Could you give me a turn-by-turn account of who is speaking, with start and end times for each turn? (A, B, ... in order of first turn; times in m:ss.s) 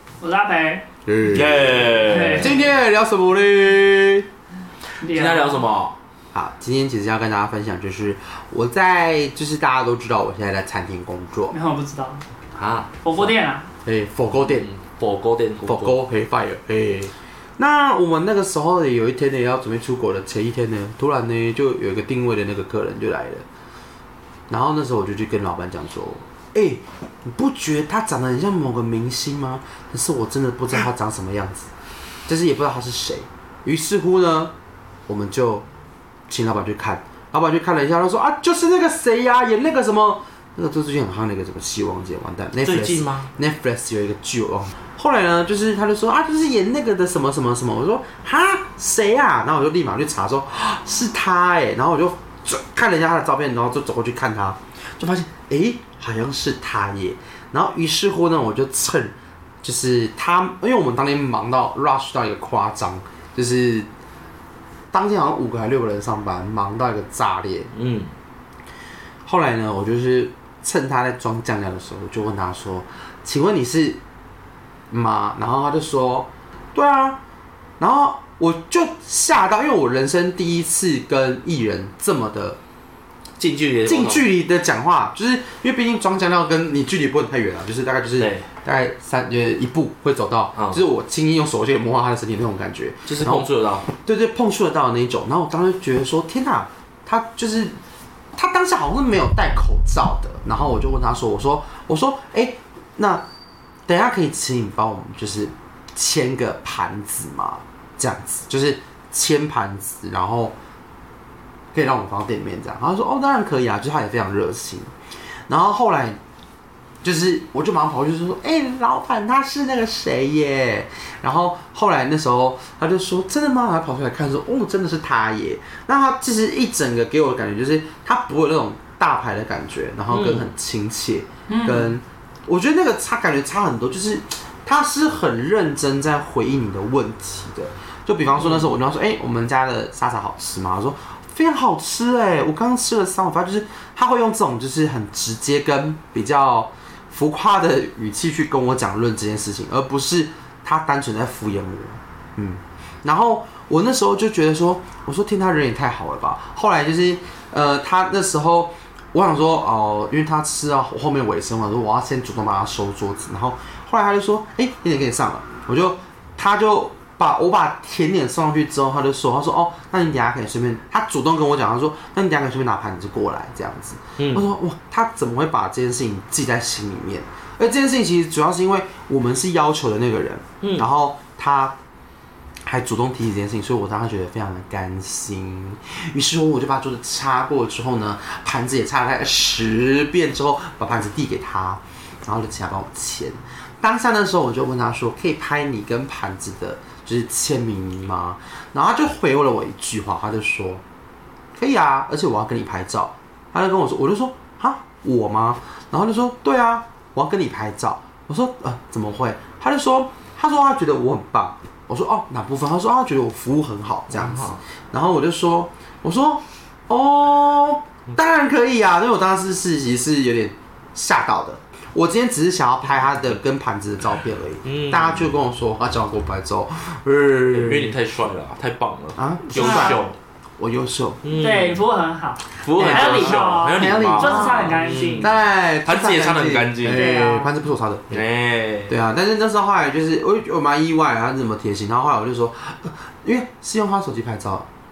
0:00.2-0:00.8 A
0:01.0-0:04.3 B
0:01.3-0:02.7 C
0:02.0-0:02.6 A
0:05.0-0:05.6 A
0:05.0-0:06.0 C
0:06.3-0:11.5 B
0:11.5-0:12.2 A
0:12.5-0:13.3 C
0:13.0-0:13.6 A
0:13.8-0:14.7 B
0:14.4-0:16.0 C
0:15.6-0:23.4 B
0:24.5-0:31.7 B
0:32.3-0:34.5 B
0:35.1-0:35.6 B
0:36.3-1:03.9 B
0:42.6-0:43.3 C
1:04.9-1:07.7 B
1:07.8-1:08.1 C
1:09.2-1:14.0 B
1:14.9-1:17.2 B
1:17.8-1:22.6 B
1:23.4-1:24.3 C
1:23.8-1:37.8 B
1:28.2-1:28.4 C
1:33.1-1:33.9 C
1:38.3-1:43.2 B
1:43.9-1:50.5 B
1:51.7-1:54.9 B
1:55.5-1:56.2 B
1:57.0-3:01.8 B
2:10.1-2:10.5 C
2:11.5-2:11.9 A
2:18.4-2:18.7 C
2:54.2-2:54.4 C
3:02.7-3:20.8 B
3:21.6-3:48.0 B
3:34.1-3:34.6 C
3:44.6-3:45.3 C
3:47.5-3:50.1 C
3:49.2-3:50.0 B
3:49.5-3:50.0 A
3:50.6-3:51.2 B
3:51.2-3:51.8 C
3:51.3-3:55.3 A
3:52.6-3:57.1 C
3:52.7-3:58.2 B
3:56.9-3:57.5 A
3:58.1-3:59.0 C
3:58.9-4:04.7 B